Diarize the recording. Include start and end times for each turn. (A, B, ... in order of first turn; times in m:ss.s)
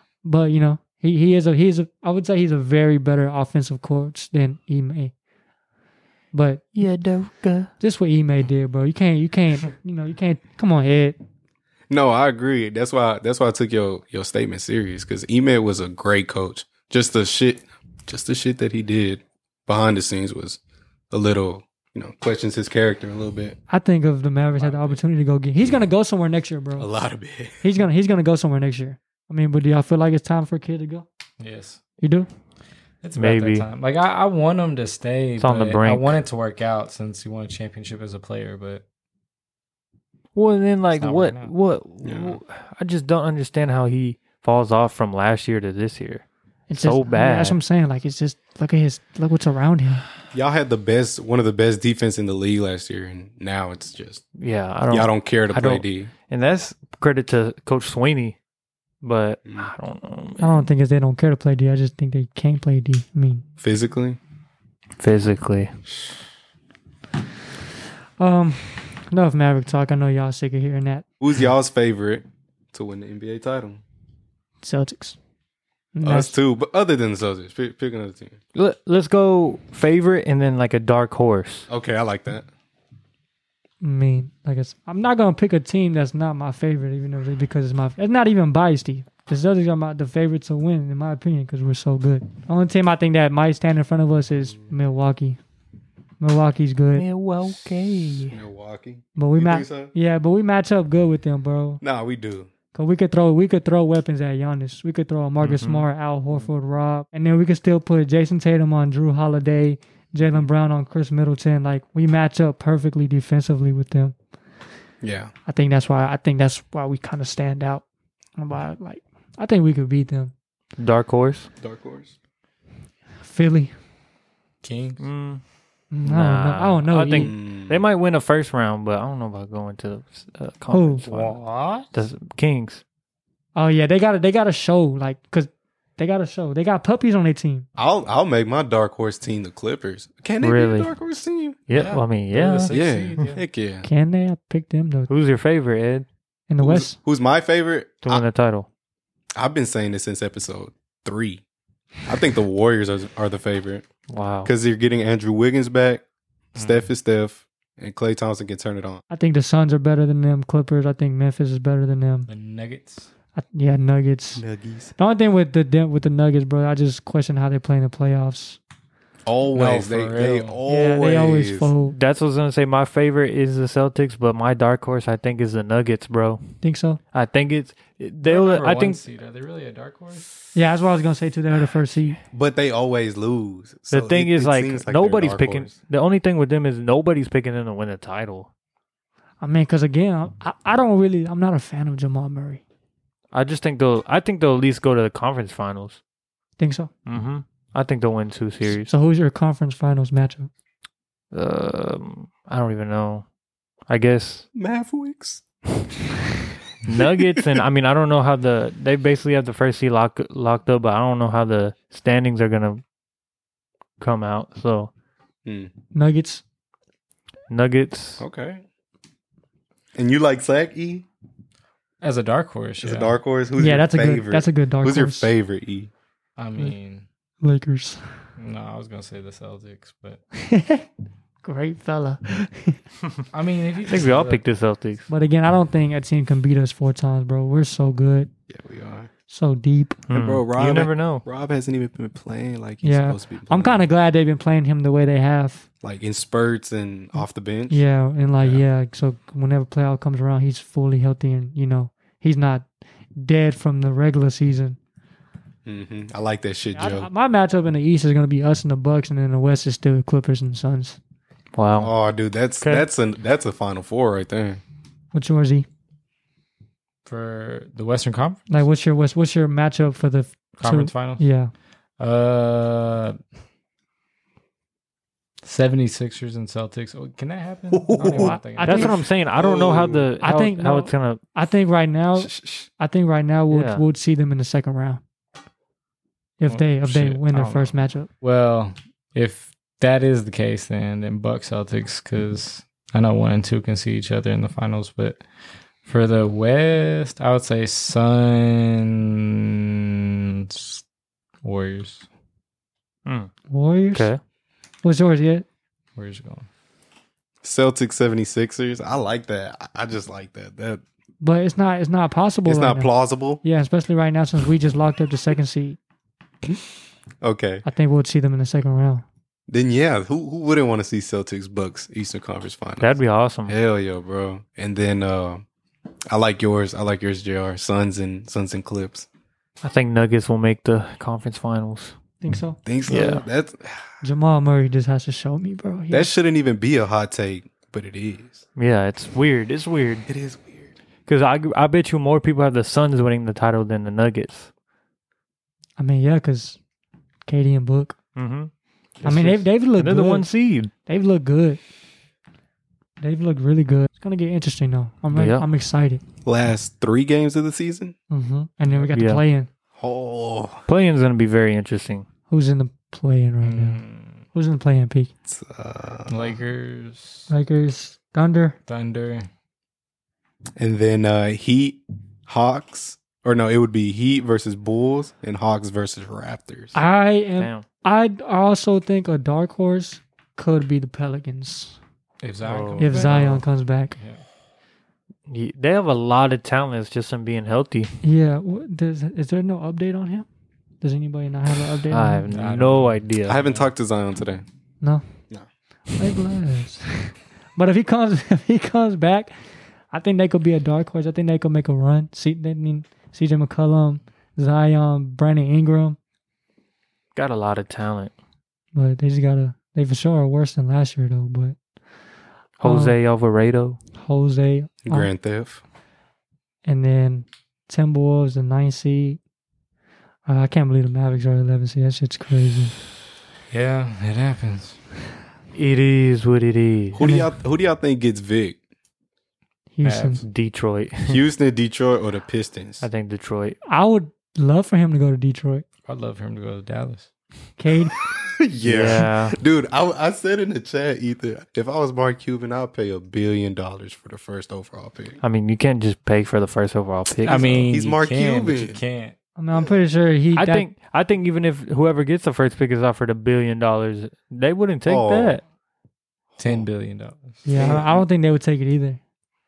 0:00.2-0:05.1 A
0:06.3-0:06.8 A
0:06.8-0:07.7 B
0:07.8-0:11.2 A
0:11.9-0:20.6 C
0:21.1-0:23.6 C
0:23.7-0:26.9 A
0:24.6-0:25.0 D
0:26.8-0:27.6 C
0:27.6-0:31.1 A
0:31.4-0:31.8 D
0:32.0-0:32.3 A
0:33.0-0:38.8 D
0:33.2-0:33.7 B
0:35.4-0:36.2 B
0:40.4-0:47.6 B
0:40.9-0:41.5 D
0:42.0-0:42.4 C
0:46.7-0:50.0 A
0:50.3-0:54.2 C
0:54.4-0:58.4 B
0:54.9-0:56.1 C
0:59.0-1:00.7 B
0:59.5-0:59.7 C
1:00.4-1:03.4 A
1:03.6-1:04.2 C
1:05.0-1:05.7 B
1:08.2-1:11.1 A
1:11.2-1:13.8 C
1:14.6-1:15.2 A
1:16.0-1:16.4 A
1:16.0-1:18.4 C
1:18.6-1:21.7 B
1:21.7-1:22.5 C
1:23.8-1:35.4 A
1:34.4-1:34.7 C
1:36.2-1:37.1 A
1:37.0-1:38.4 B
1:38.3-1:39.9 C
1:39.2-1:41.8 A
1:41.8-1:42.5 C
1:42.7-1:54.2 A
1:45.4-1:45.9 B
1:55.0-1:55.3 C
1:55.5-1:57.8 A
1:58.4-2:00.3 A
2:00.8-2:01.5 B
2:01.6-2:02.2 C
2:03.2-2:03.7 A
2:04.6-2:05.0 D
2:05.0-2:05.4 B
2:05.9-2:07.4 A
2:06.0-2:12.8 B
2:07.2-2:07.9 C
2:10.7-2:11.1 A
2:11.1-2:11.9 D
2:13.6-2:17.7 A
2:17.8-2:21.6 C
2:20.4-2:20.9 B
2:21.7-2:22.8 B
2:21.7-2:23.4 D
2:22.7-2:23.9 C
2:23.8-2:25.1 A
2:25.1-2:26.1 B
2:26.5-2:27.0 A
2:26.6-2:28.3 C
2:28.0-2:28.7 B
2:29.4-2:31.4 C
2:32.1-2:33.9 C
2:34.1-2:34.5 B
2:34.4-2:36.0 C
2:36.6-2:39.0 C
2:36.6-2:36.9 D
2:39.1-2:42.3 A
2:42.3-2:43.1 D
2:43.4-2:44.4 A
2:44.4-2:45.0 C
2:45.0-2:48.6 A
2:49.3-2:51.7 C
2:49.5-2:50.6 D
2:50.7-2:52.0 A
2:51.9-2:56.4 B
2:56.6-2:57.0 A
2:57.1-2:59.0 B
2:58.2-3:00.3 D
3:00.5-3:02.2 A
3:02.3-3:05.8 C
3:03.9-3:08.5 B
3:09.4-3:12.6 A
3:13.3-3:16.0 B
3:16.6-3:16.9 A
3:17.1-3:18.9 B
3:18.7-3:20.5 A
3:21.3-3:23.2 B
3:23.9-3:24.5 B
3:24.6-3:25.4 C
3:26.9-3:32.8 B
3:27.2-3:27.6 C
3:34.0-3:34.9 B
3:35.9-3:36.4 A
3:37.5-3:38.2 B
3:38.2-3:38.6 C
3:40.0-3:41.1 C
3:42.0-3:43.2 D
3:42.8-3:45.9 C
3:43.6-3:45.3 A
3:46.4-3:47.0 D
3:47.4-3:48.0 A
3:48.4-3:50.2 D
3:50.4-3:50.9 A
3:51.4-3:52.8 A
3:53.3-3:54.4 D
3:53.9-3:55.1 B
3:55.1-3:58.3 A
3:58.5-3:59.1 C
3:59.3-4:00.0 A
4:00.1-4:01.2 B
4:00.1-4:03.8 C
4:02.8-4:05.7 A
4:05.8-4:07.9 C
4:07.7-4:14.8 A
4:15.7-4:17.1 C
4:16.7-4:21.0 A
4:21.6-4:21.9 B
4:21.8-4:24.6 C
4:22.6-4:22.9 B
4:25.1-4:25.7 A
4:27.1-4:28.6 D
4:28.5-4:31.5 A
4:30.6-4:31.2 D
4:32.0-4:33.2 D
4:35.4-4:38.9 D
4:37.7-4:40.1 C
4:38.0-4:39.0 A
4:38.6-4:41.2 B
4:40.2-4:45.0 A
4:42.2-4:42.7 C
4:43.5-4:43.8 B
4:46.4-4:48.1 A
4:46.5-4:55.2 D
4:55.8-4:59.5 D
5:00.4-5:00.8 D
5:01.4-5:02.1 D
5:03.1-5:03.3 B
5:03.5-5:04.1 A
5:03.9-5:04.2 B
5:04.8-5:05.5 A
5:06.0-5:06.5 D
5:07.4-5:10.8 C
5:11.2-5:15.8 A
5:12.4-5:13.4 C
5:17.2-5:17.6 C
5:17.6-5:19.0 A
5:19.5-5:25.4 C
5:22.8-5:23.5 B
5:26.1-5:29.1 C
5:29.6-5:31.9 B
5:32.2-5:33.0 A
5:32.6-5:33.9 C
5:32.9-5:33.2 B
5:34.0-5:36.1 A
5:35.9-5:38.4 C
5:38.6-5:40.1 B
5:40.1-5:40.7 C
5:41.1-5:44.5 B
5:45.8-5:46.6 A
5:47.3-5:48.0 A
5:48.2-5:48.5 B
5:49.0-5:50.3 A
5:49.0-5:50.7 B
5:50.9-5:51.6 A
5:53.0-5:56.0 A
5:55.1-5:55.5 B
5:56.2-5:58.0 C
5:58.1-5:59.5 A
5:58.9-5:59.2 B
5:59.8-6:00.6 C
6:00.7-6:02.1 B
6:02.3-6:03.8 A
6:03.4-6:04.2 D
6:04.3-6:05.1 A
6:05.3-6:06.3 C
6:06.1-6:07.3 D
6:07.3-6:08.6 A
6:08.7-6:09.3 D
6:10.6-6:16.8 C
6:16.7-6:21.8 A
6:17.4-6:17.7 B
6:22.2-6:24.2 D
6:22.5-6:22.9 B
6:22.8-6:24.0 A
6:25.3-6:27.9 B
6:28.0-6:30.3 A
6:30.8-6:32.3 A
6:31.9-6:33.4 B
6:32.3-6:33.7 D
6:33.3-6:34.4 C
6:36.0-6:39.3 A
6:39.9-6:46.0 A
6:47.2-6:48.1 B
6:48.7-6:51.6 A
6:52.6-6:53.8 B
6:52.6-6:53.0 A
6:54.0-6:55.1 A
6:54.8-6:55.6 C
6:56.6-6:59.2 A
7:00.3-7:02.8 A
7:03.5-7:04.8 D
7:05.5-7:07.0 B
7:06.9-7:08.6 C
7:07.0-7:07.3 A
7:09.7-7:10.2 A
7:09.8-7:10.2 D
7:10.2-7:11.2 B
7:11.1-7:12.8 C
7:12.8-7:13.6 B
7:13.7-7:15.6 A
7:15.9-7:17.1 D
7:17.6-7:18.0 A
7:18.0-7:25.2 C
7:18.6-7:19.4 B
7:25.2-7:27.8 B
7:27.2-7:29.2 D
7:27.2-7:28.8 C
7:29.4-7:30.7 A
7:30.3-7:35.4 B
7:34.8-7:35.4 C
7:36.4-7:36.7 C
7:36.4-7:37.4 D
7:37.4-7:39.0 A
7:37.5-7:38.0 C